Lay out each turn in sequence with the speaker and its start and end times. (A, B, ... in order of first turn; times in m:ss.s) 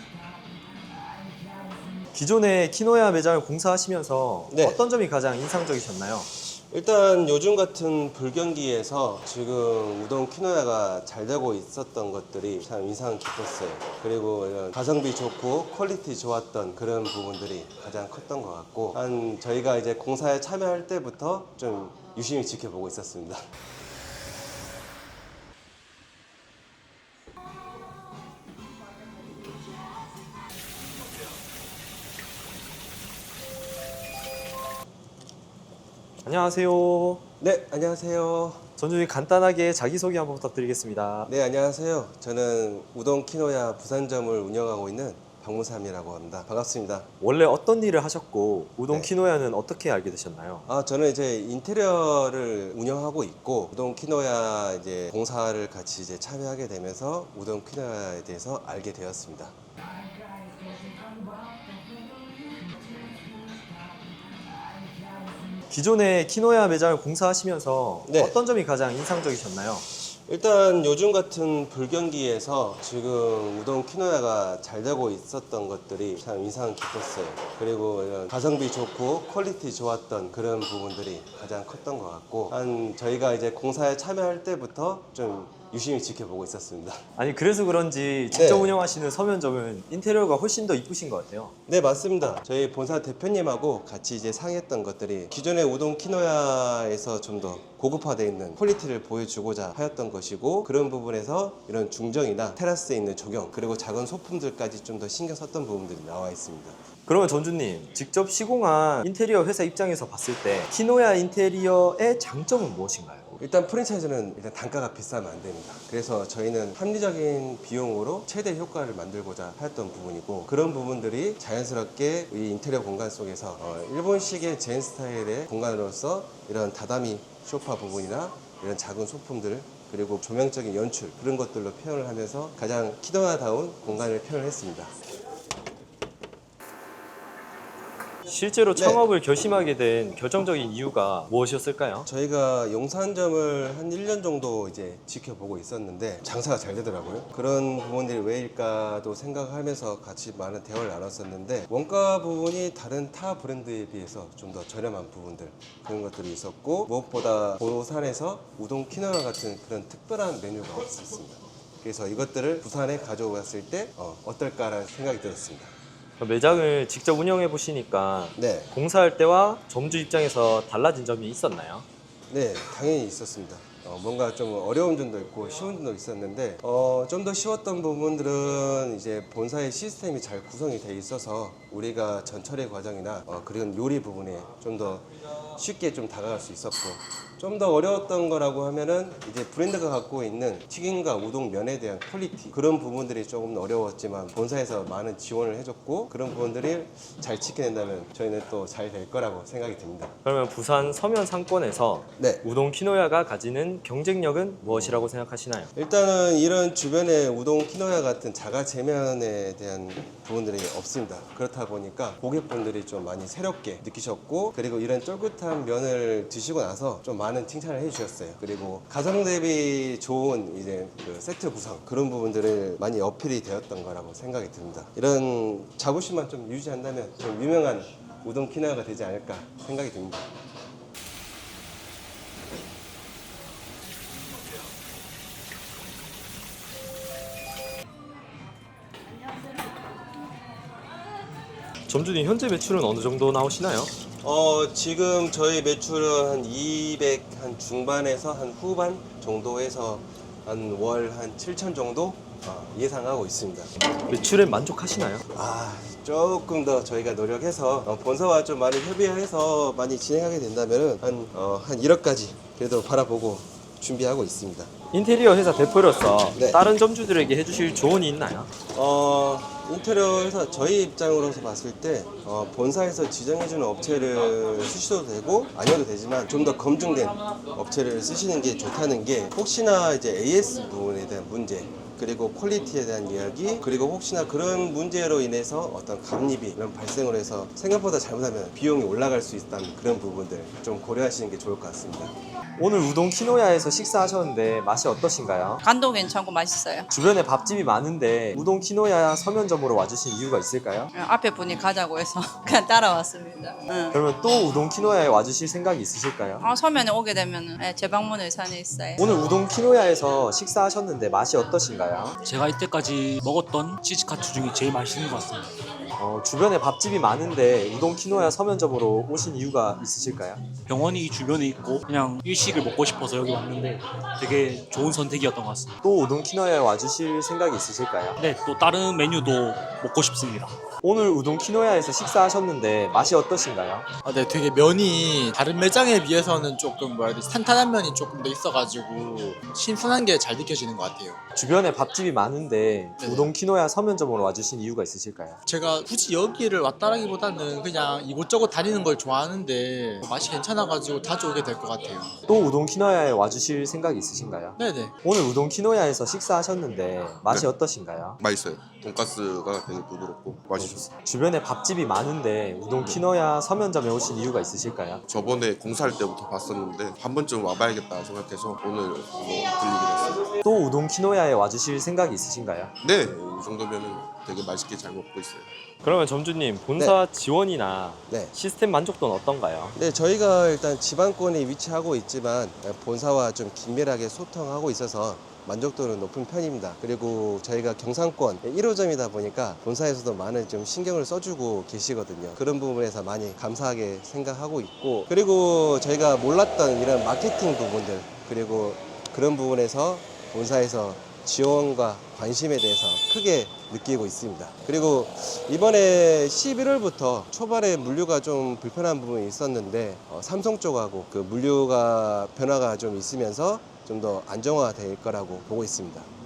0:02.1-0:06.3 A
0:04.5-0:04.8 B
0:06.5-0:23.4 B
0:36.2-0:37.2 A
0:37.4-0:38.6 B
0:38.8-0:41.3 A
0:41.2-0:47.1 B
0:47.2-0:50.7 A
0:50.7-0:59.5 B
1:05.7-1:09.9 A
1:08.0-1:08.4 B
1:10.1-1:27.0 B
1:27.2-1:31.5 A
1:28.3-1:28.8 B
1:31.7-1:46.8 B
1:47.0-1:53.4 A
1:53.4-2:14.9 B
2:18.3-2:22.1 A
2:18.7-2:19.0 B
2:22.0-2:45.7 B
2:46.2-2:51.8 A
2:48.4-2:48.7 B
2:52.3-3:20.1 B
3:20.2-3:25.7 A
3:22.2-3:22.4 B
3:24.6-3:25.2 B
3:25.7-3:50.3 B
4:01.9-4:03.9 A
4:04.2-4:13.7 B
4:14.1-4:15.2 A
4:15.3-4:24.7 B
4:24.9-4:28.5 A
4:26.3-4:26.6 B
4:28.7-4:52.1 B
4:52.6-4:55.6 A
4:55.6-4:56.9 C
4:56.9-5:00.9 A
5:00.9-5:04.0 C
5:03.9-5:06.4 A
5:06.4-5:09.1 C
5:09.0-5:12.2 A
5:12.2-5:15.6 D
5:16.0-5:20.5 A
5:20.7-5:25.8 D
5:25.8-5:28.2 A
5:28.2-5:30.6 D
5:30.8-5:33.9 A
5:34.0-5:41.2 E
5:41.3-5:45.4 A
5:43.0-5:43.3 E
5:45.4-5:52.2 E
5:52.3-5:58.2 A
5:54.6-5:54.9 E
5:58.2-6:00.9 F
6:00.6-6:05.0 A
6:05.1-6:10.3 F
6:10.4-6:12.7 A
6:12.8-6:15.5 F
6:15.8-6:19.8 A
6:18.1-6:18.3 B
6:19.8-6:56.1 B